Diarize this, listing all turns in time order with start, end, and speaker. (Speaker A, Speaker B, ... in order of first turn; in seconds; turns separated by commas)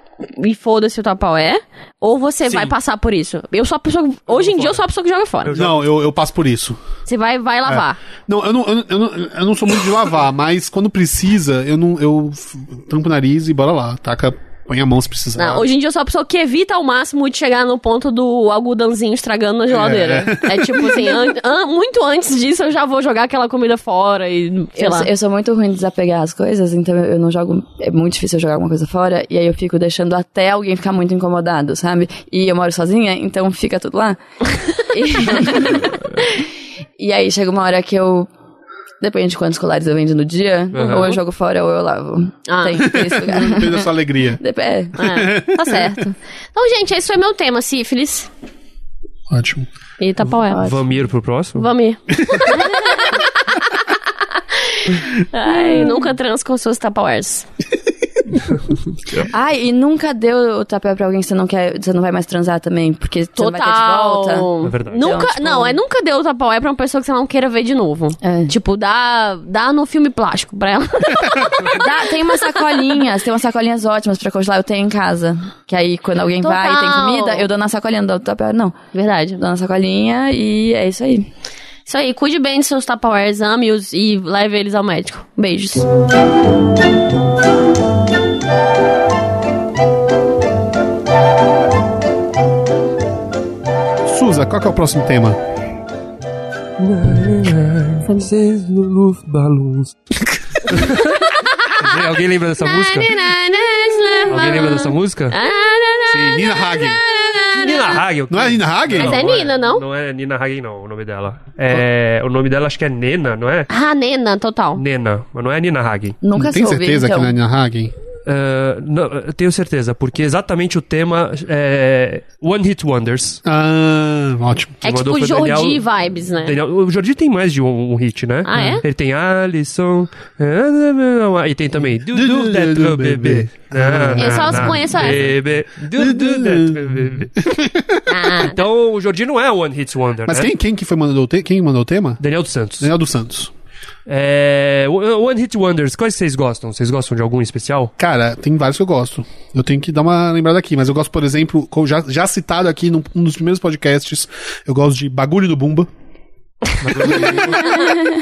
Speaker A: 0.3-5.6, Speaker B: 2.5-2.7, Speaker B: 4.3-4.8, Speaker B: 5.4-5.9, Speaker C: 5.5-6.8, Speaker A: 7.1-8.0, Speaker C: 7.7-15.7, Speaker A: 15.4-25.1, Speaker C: 19.7-21.1, Speaker D: 24.8-34.2, Speaker D: 34.9-36.0, Speaker D: 37.0-38.3, Speaker D: 39.0-43.9, Speaker B: 40.7-41.1, Speaker A: 40.8-41.2, Speaker A: 42.5-43.0, Speaker C: 43.2-44.4, Speaker D: 44.4-45.0, Speaker C: 45.0-45.9, Speaker A: 45.0-48.3, Speaker C: 49.3-49.7, Speaker A: 50.0-50.6, Speaker D: 50.5-50.8, Speaker B: 50.5-51.7, Speaker A: 51.6-57.5, Speaker C: 52.2-52.6, Speaker D: 55.5-56.1, Speaker D: 59.2-65.8, Speaker A: 63.4-72.4, Speaker B: 64.6-65.1, Speaker D: 68.2-68.5, Speaker C: 71.2-71.5, Speaker D: 71.8-78.8, Speaker A: 76.4-77.5, Speaker A: 78.9-79.4, Speaker D: 79.4-81.3, Speaker A: 81.9-85.9, Speaker C: 94.0-95.4, Speaker B: 96.8-100.0, Speaker B: 100.7-103.1, Speaker A: 101.3-101.7, Speaker A: 102.6-108.0, Speaker B: 104.3-105.4, Speaker C: 106.1-107.0, Speaker B: 107.6-113.7, Speaker C: 108.3-109.3, Speaker A: 109.0-109.8, Speaker A: 113.7-114.8, Speaker B: 114.8-116.2, Speaker D: 116.2-117.3, Speaker C: 116.3-117.9, Speaker B: 118.3-123.4, Speaker C: 123.5-124.8, Speaker B: 124.8-125.9, Speaker A: 124.8-126.6, Speaker B: 126.4-137.3, Speaker A: 128.4-128.8, Speaker C: 128.6-128.8, Speaker C: 132.0-135.3, Speaker A: 134.2-135.3, Speaker C: 135.9-138.3, Speaker A: 138.1-138.6, Speaker B: 138.4-140.5, Speaker C: 140.3-142.2, Speaker B: 142.2-142.9, Speaker C: 142.8-143.5, Speaker B: 144.1-147.9, Speaker C: 148.0-155.9, Speaker B: 156.8-157.9, Speaker A: 157.6-158.0